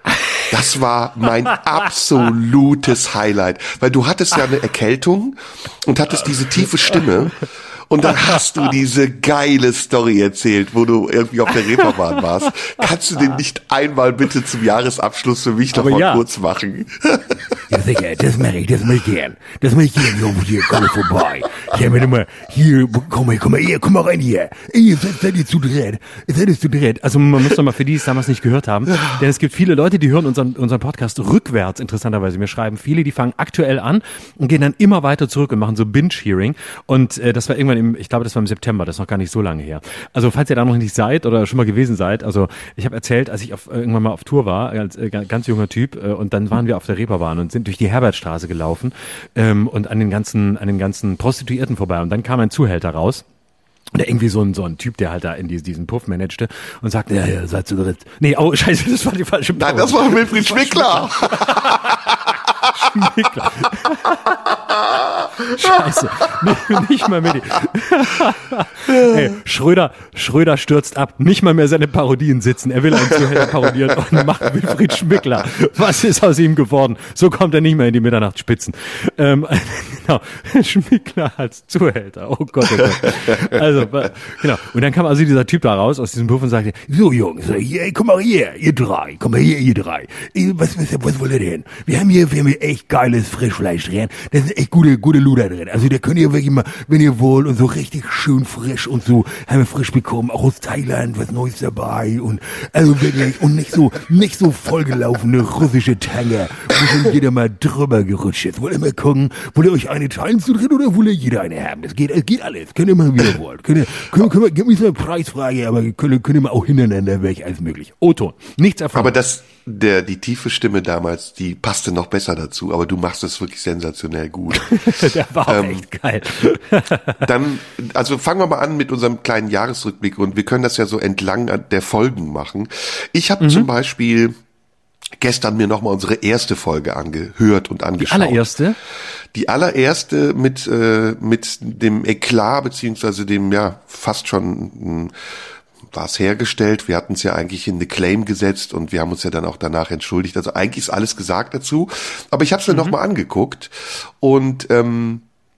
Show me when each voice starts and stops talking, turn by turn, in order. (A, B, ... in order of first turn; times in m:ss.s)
0:00.5-0:17.6 A
0:15.7-0:16.2 B
0:17.7-0:26.4 C
0:17.8-0:53.2 B
0:53.9-1:04.4 B
0:59.6-1:03.0 A
1:04.3-1:05.8 A
1:05.4-1:30.3 B
1:08.9-1:09.3 A
1:23.0-1:23.5 A
1:27.2-1:57.6 C
1:35.0-1:36.3 B
1:37.2-1:39.3 B
1:57.5-1:59.1 B
1:58.9-2:05.9 A
2:04.6-2:07.2 B
2:07.2-2:14.4 A
2:13.4-2:13.7 B
2:15.2-2:18.5 A
2:18.0-2:18.8 B
2:19.3-2:25.1 A
2:25.9-2:35.2 A
2:32.7-2:32.9 B